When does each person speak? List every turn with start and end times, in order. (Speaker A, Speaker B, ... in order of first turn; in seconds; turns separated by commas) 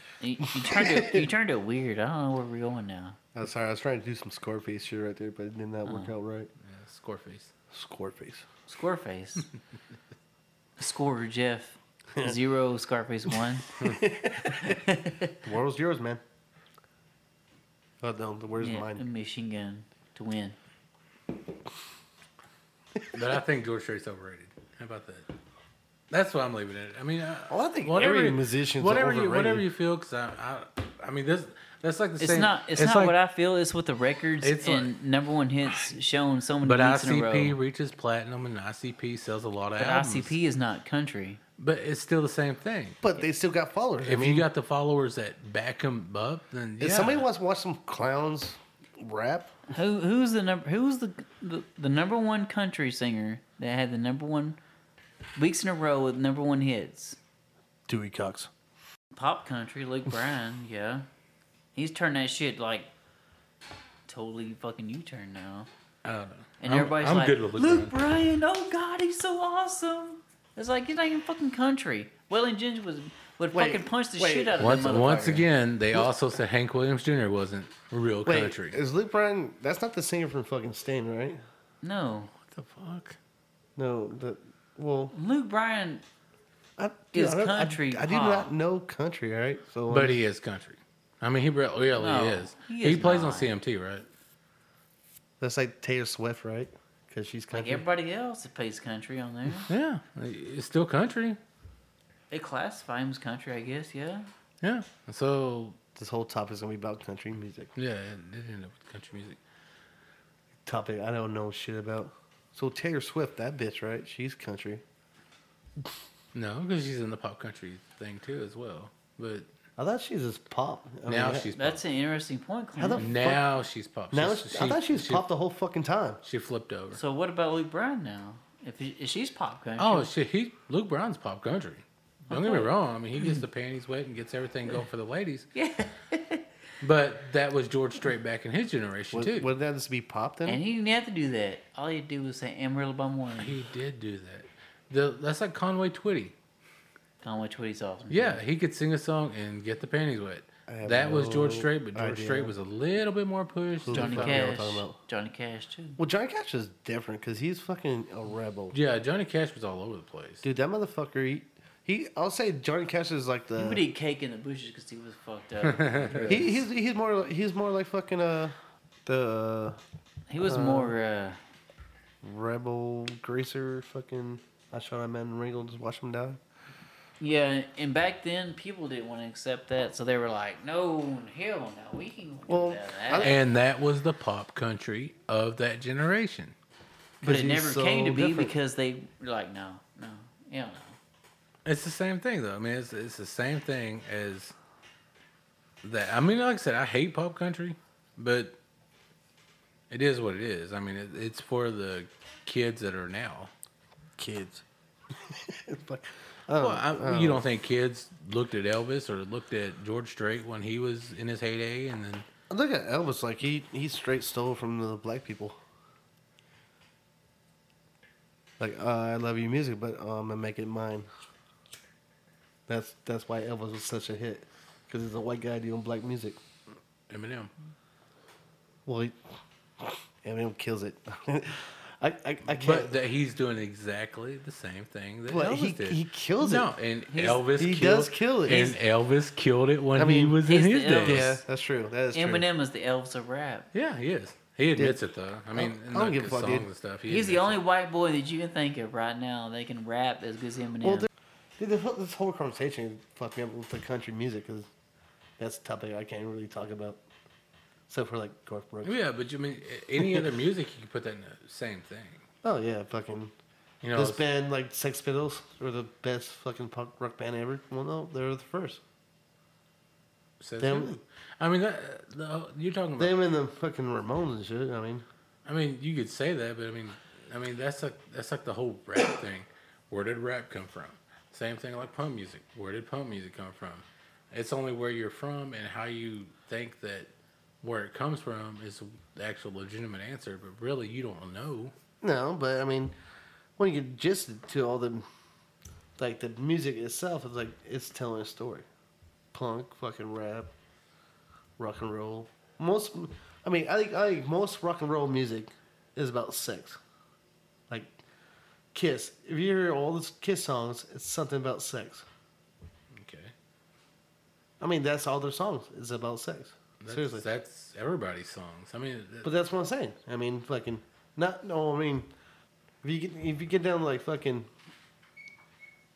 Speaker A: 0.2-3.2, Speaker B: 0.4-1.3, Speaker B: 3.4-6.5, Speaker A: 5.9-6.1, Speaker C: 6.6-7.5, Speaker B: 7.7-8.5, Speaker A: 8.7-9.5, Speaker A: 10.8-13.7, Speaker B: 13.8-14.8, Speaker A: 14.6-15.4, Speaker B: 15.4-16.2, Speaker B: 18.0-19.0, Speaker A: 18.6-20.6, Speaker C: 23.1-25.3, Speaker C: 26.1-33.1, Speaker B: 27.5-29.6, Speaker A: 32.2-37.6, Speaker C: 34.4-34.9, Speaker C: 35.7-35.9, Speaker C: 36.6-40.3, Speaker A: 39.8-41.4, Speaker C: 41.6-43.0, Speaker B: 43.0-44.5, Speaker C: 44.0-47.3, Speaker B: 46.8-49.6, Speaker A: 49.7-54.6, Speaker A: 55.4-57.2, Speaker B: 57.9-58.5, Speaker A: 59.1-61.1, Speaker A: 61.8-62.9, Speaker A: 64.1-65.7, Speaker C: 66.0-67.9, Speaker A: 66.6-75.5, Speaker B: 73.5-75.0, Speaker C: 74.6-78.8, Speaker B: 78.3-81.4, Speaker A: 81.8-82.3, Speaker C: 82.4-83.2, Speaker B: 83.8-85.1, Speaker A: 85.1-86.0, Speaker B: 86.8-90.2, Speaker A: 87.1-88.5, Speaker C: 89.9-94.0, Speaker A: 92.0-93.5, Speaker B: 95.4-97.8, Speaker A: 97.5-99.7, Speaker C: 99.7-101.4, Speaker A: 102.3-104.3, Speaker C: 104.6-105.8, Speaker B: 106.0-107.7, Speaker C: 107.8-109.4, Speaker B: 110.7-114.8, Speaker C: 116.3-119.5, Speaker B: 119.8-121.5, Speaker C: 121.1-121.8, Speaker A: 121.6-123.1, Speaker B: 122.8-123.4, Speaker C: 123.0-125.2, Speaker B: 124.1-126.2, Speaker C: 126.2-127.0, Speaker A: 126.9-130.1, Speaker C: 129.8-135.5, Speaker A: 132.3-132.7, Speaker A: 135.6-136.5, Speaker C: 136.8-139.5, Speaker B: 139.1-140.6, Speaker A: 140.4-143.6, Speaker C: 143.4-146.3, Speaker A: 147.2-148.4, Speaker C: 148.1-154.5, Speaker B: 150.7-152.5, Speaker B: 153.8-155.0, Speaker A: 153.9-156.0, Speaker B: 156.0-158.8, Speaker C: 158.7-160.4, Speaker B: 160.4-163.8, Speaker A: 163.6-166.5, Speaker C: 165.6-166.5, Speaker B: 166.3-169.8, Speaker A: 170.3-171.4, Speaker B: 170.4-170.9, Speaker B: 172.2-176.4, Speaker A: 177.2-183.3, Speaker B: 182.5-183.4, Speaker C: 183.2-186.5, Speaker B: 187.2-188.5, Speaker A: 187.2-191.0, Speaker C: 191.6-194.5, Speaker C: 195.8-198.6, Speaker C: 199.9-203.5, Speaker B: 204.2-207.4, Speaker C: 206.6-212.3, Speaker B: 212.5-215.6, Speaker B: 218.6-221.1, Speaker B: 222.7-226.4, Speaker C: 227.1-227.5, Speaker B: 228.9-229.2, Speaker B: 229.8-233.0, Speaker C: 232.5-241.4, Speaker B: 235.3-236.7, Speaker A: 237.1-237.4, Speaker B: 237.5-238.8, Speaker B: 239.9-240.4, Speaker A: 240.4-241.4, Speaker B: 241.1-242.4, Speaker A: 242.1-243.7, Speaker C: 243.7-247.6, Speaker B: 245.5-246.7, Speaker A: 247.1-251.1, Speaker B: 250.8-254.7, Speaker B: 255.4-257.0, Speaker B: 257.9-258.9, Speaker C: 258.8-262.2, Speaker B: 260.0-260.3, Speaker B: 262.4-263.3, Speaker C: 263.8-264.2, Speaker B: 263.9-268.8, Speaker C: 270.4-273.1, Speaker B: 270.6-271.0, Speaker B: 273.0-275.1, Speaker C: 275.4-287.1, Speaker C: 287.6-291.7, Speaker B: 292.0-292.9, Speaker B: 293.6-295.1, Speaker B: 296.0-298.7, Speaker B: 299.3-300.5, Speaker B: 301.6-306.8, Speaker B: 307.7-307.9, Speaker B: 308.7-312.1, Speaker C: 312.9-313.3, Speaker B: 314.6-317.3, Speaker C: 316.8-319.3, Speaker B: 319.2-322.1, Speaker B: 322.8-324.5